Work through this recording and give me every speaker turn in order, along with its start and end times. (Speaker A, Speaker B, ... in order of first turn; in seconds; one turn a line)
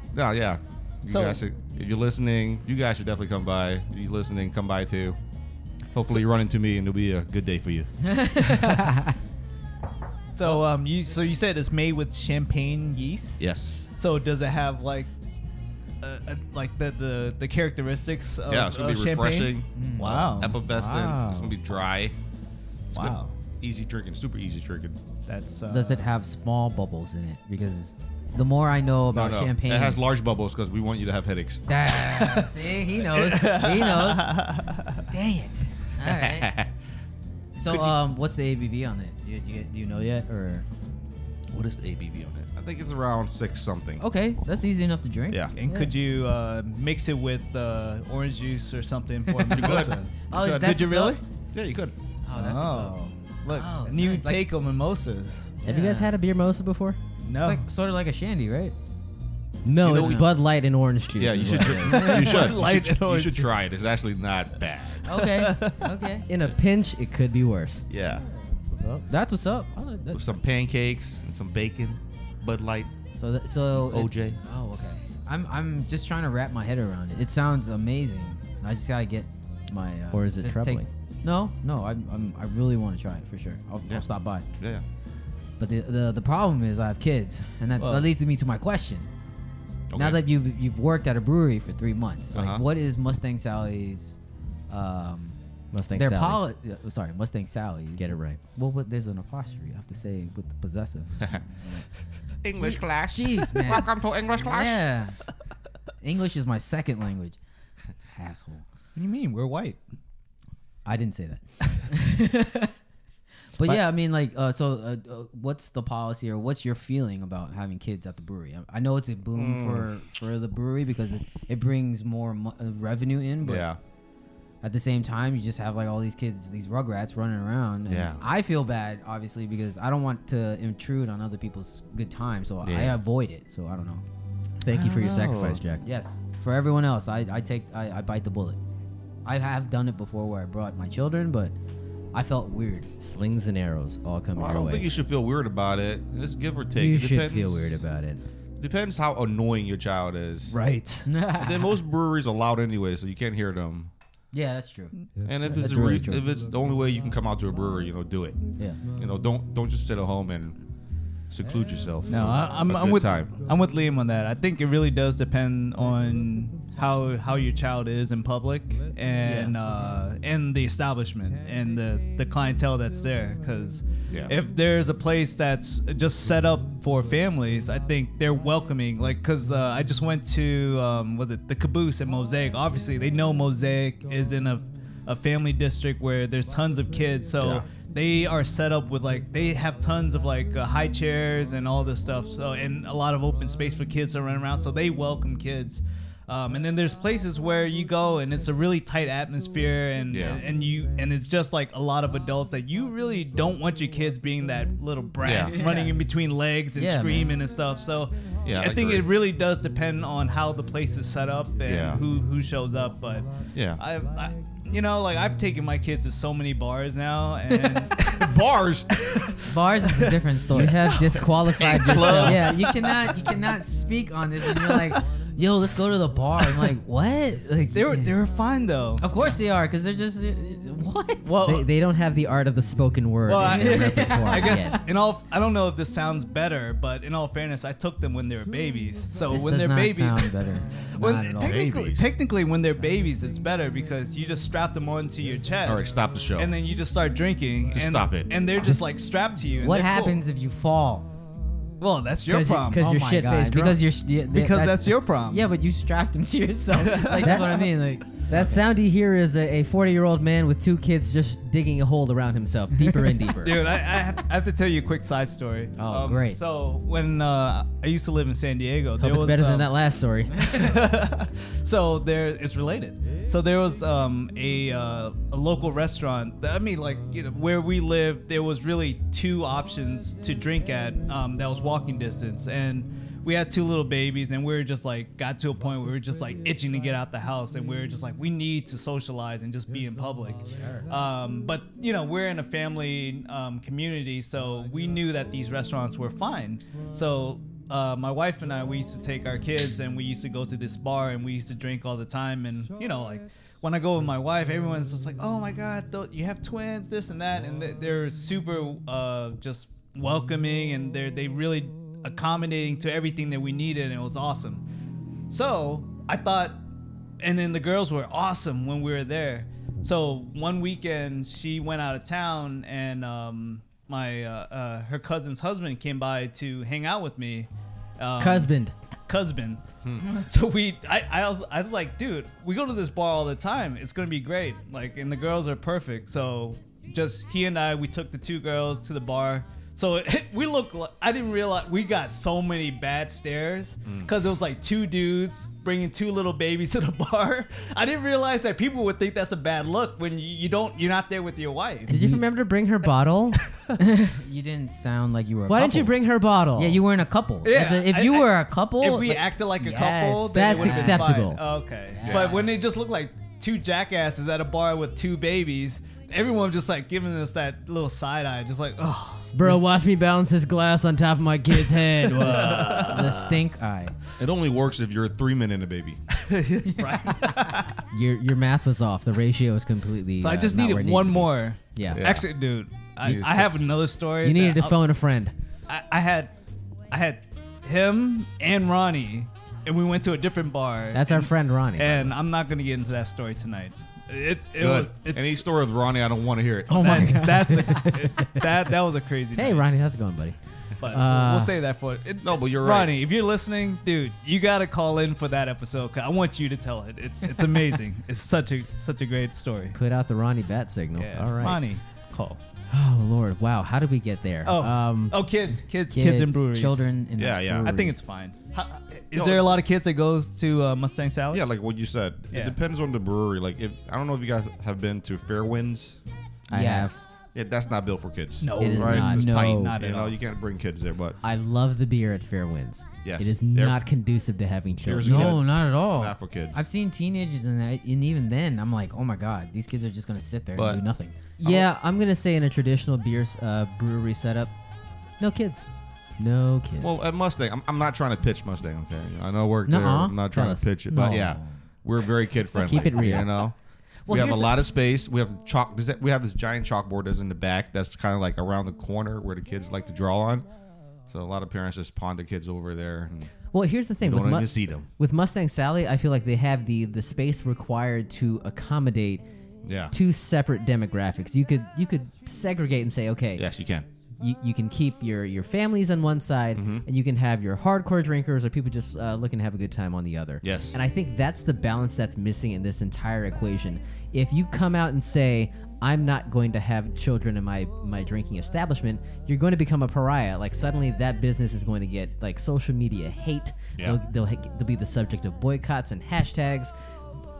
Speaker A: 0.1-5.2
Speaker B: 1.1-1.4
Speaker A: 5.9-7.9
Speaker C: 8.0-9.1
Speaker B: 10.3-13.4
Speaker A: 13.4-13.8
Speaker B: 14.0-15.1
Speaker B: 16.0-20.6
Speaker A: 18.5-22.1
Speaker C: 19.8-21.6
Speaker A: 22.9-25.0
Speaker B: 22.9-23.4
Speaker B: 25.3-26.0
Speaker C: 25.7-30.0
Speaker A: 29.1-31.8
Speaker C: 31.7-34.4
Speaker B: 31.9-32.5
Speaker B: 33.1-35.0
Speaker C: 35.1-36.5
Speaker A: 36.0-36.7
Speaker C: 37.6-40.6
Speaker A: 37.7-38.0
Speaker A: 41.5-44.0
Speaker C: 44.0-46.0
Speaker B: 45.6-51.2
Speaker C: 49.3-51.2
Speaker A: 49.5-50.7
Speaker A: 51.5-52.0
Speaker C: 52.2-54.5
Speaker B: 52.3-55.5
Speaker C: 55.6-56.1
Speaker D: 55.6-57.0
Speaker B: 57.2-57.6
Speaker C: 57.4-58.8
Speaker D: 59.6-62.1
Speaker A: 59.8-60.3
Speaker C: 59.9-60.3
Speaker A: 61.2-65.2
Speaker C: 61.5-62.6
Speaker B: 61.9-63.6
Speaker C: 65.0-66.3
Speaker B: 65.1-65.9
Speaker D: 66.3-67.9
Speaker A: 67.9-68.3
Speaker C: 68.3-70.3
Speaker A: 70.1-72.9
Speaker C: 73.1-84.5
Speaker A: 73.7-74.4
Speaker D: 80.1-80.9
Speaker A: 84.6-84.8
Speaker C: 85.6-89.1
Speaker B: 87.8-88.1
Speaker A: 89.9-90.2
Speaker C: 90.0-94.2
Speaker A: 92.3-92.6
Speaker C: 94.7-95.4
Speaker D: 95.7-96.4
Speaker C: 95.9-101.9
Speaker D: 98.0-98.4
Speaker A: 102.4-104.8
Speaker C: 102.6-105.2
Speaker C: 106.0-107.4
Speaker C: 108.1-108.7
Speaker B: 109.0-109.8
Speaker C: 110.8-112.7
Speaker C: 113.6-123.7
Speaker A: 119.3-119.9
Speaker A: 123.4-123.8
Speaker C: 124.6-134.1
Speaker A: 127.9-128.2
Speaker A: 132.6-133.0
Speaker D: 134.6-135.8
Speaker A: 134.8-135.6
Speaker C: 135.8-138.6
Speaker C: 139.2-141.6
Speaker C: 142.1-142.9
Speaker D: 143.0-144.9
Speaker A: 144.4-147.7
Speaker D: 146.8-148.2
Speaker A: 148.6-150.6
Speaker B: 150.5-151.1
Speaker C: 151.1-151.8
Speaker A: 151.4-153.9
Speaker C: 154.3-154.9
Speaker A: 155.2-158.4
Speaker C: 155.4-156.2
Speaker A: 159.0-160.6
Speaker A: 161.3-163.3
Speaker B: 162.1-218.1
Speaker C: 169.2-169.5
Speaker A: 187.4-187.7
Speaker A: 200.1-200.4
Speaker A: 205.2-205.6
Speaker C: 205.5-206.0
Speaker C: 206.8-207.4
Speaker A: 208.4-209.1
Speaker A: 211.7-212.0
Speaker A: 213.6-213.8
Speaker A: 218.0-219.2
Speaker C: 219.5-220.9
Speaker D: 220.5-222.5
Speaker A: 221.2-222.7
Speaker B: 221.9-223.0
Speaker C: 222.2-228.2
Speaker B: 224.4-225.0
Speaker B: 226.4-226.7
Speaker B: 227.7-229.1
Speaker C: 229.0-231.3
Speaker B: 231.2-231.7
Speaker D: 231.3-234.8
Speaker B: 233.3-250.2
Speaker C: 233.4-234.8
Speaker C: 239.3-241.7
Speaker A: 241.4-242.1
Speaker A: 245.6-246.5
Speaker A: 247.7-248.3
Speaker C: 249.6-251.1
Speaker B: 251.8-252.9
Speaker D: 252.3-253.8
Speaker C: 252.6-258.6
Speaker B: 254.3-255.5
Speaker B: 256.7-257.7
Speaker D: 258.3-263.6
Speaker B: 263.4-269.7
Speaker C: 265.8-266.4
Speaker D: 269.0-270.7
Speaker B: 270.4-314.6
Speaker C: 290.6-290.9
Speaker B: 315.3-316.6
Speaker B: 317.2-328.5
Speaker D: 328.2-328.7
Speaker B: 329.1-351.9
Speaker A: 329.8-330.1
Speaker A: 343.9-344.1
Speaker C: 351.9-352.2
Speaker D: 351.9-353.4
Speaker C: 353.8-355.9
Speaker D: 355.5-356.8
Speaker C: 356.6-361.2
Speaker B: 357.4-369.5
Speaker D: 360.3-361.4
Speaker C: 361.9-362.5
Speaker A: 362.1-362.4
Speaker D: 369.3-373.0
Speaker B: 372.2-373.1
Speaker A: 372.3-373.2
Speaker C: 372.3-373.9
Speaker A: 374.2-376.0
Speaker B: 376.1-377.8
Speaker C: 376.8-377.0
Speaker D: 377.9-382.1
Speaker B: 380.2-384.8
Speaker A: 381.9-382.3
Speaker A: 383.0-383.7
Speaker D: 384.2-385.3
Speaker B: 385.7-386.3
Speaker B: 386.9-395.4
Speaker D: 390.9-392.1
Speaker A: 394.6-397.3
Speaker B: 396.7-399.7
Speaker D: 396.7-398.4
Speaker C: 396.9-397.7
Speaker D: 399.4-401.5
Speaker B: 400.8-409.8
Speaker A: 402.2-402.9
Speaker D: 409.7-411.6
Speaker B: 411.0-412.4
Speaker D: 412.7-415.2
Speaker B: 414.4-416.9
Speaker C: 415.9-418.0
Speaker A: 417.2-417.7
Speaker B: 417.6-421.4
Speaker A: 419.1-419.6
Speaker A: 421.3-426.0
Speaker B: 422.3-422.6
Speaker D: 426.5-427.0
Speaker C: 426.5-427.1
Speaker A: 427.3-431.2
Speaker B: 428.4-430.2
Speaker D: 428.6-429.3
Speaker C: 428.7-429.8
Speaker D: 431.2-435.4
Speaker A: 433.0-433.8
Speaker A: 434.8-436.6
Speaker C: 435.0-441.3
Speaker A: 440.6-440.8
Speaker D: 441.4-444.5
Speaker D: 445.2-445.7
Speaker D: 446.2-447.0
Speaker A: 446.8-453.6
Speaker C: 449.7-450.1
Speaker D: 450.1-451.4
Speaker C: 450.9-451.5
Speaker D: 452.6-453.4
Speaker D: 454.1-454.5
Speaker A: 454.1-460.5
Speaker A: 461.1-463.3
Speaker D: 463.5-469.2
Speaker A: 464.0-464.9
Speaker A: 469.6-469.9
Speaker D: 469.9-473.4
Speaker A: 473.4-473.9
Speaker D: 474.2-496.7
Speaker A: 476.5-476.9
Speaker A: 480.4-480.8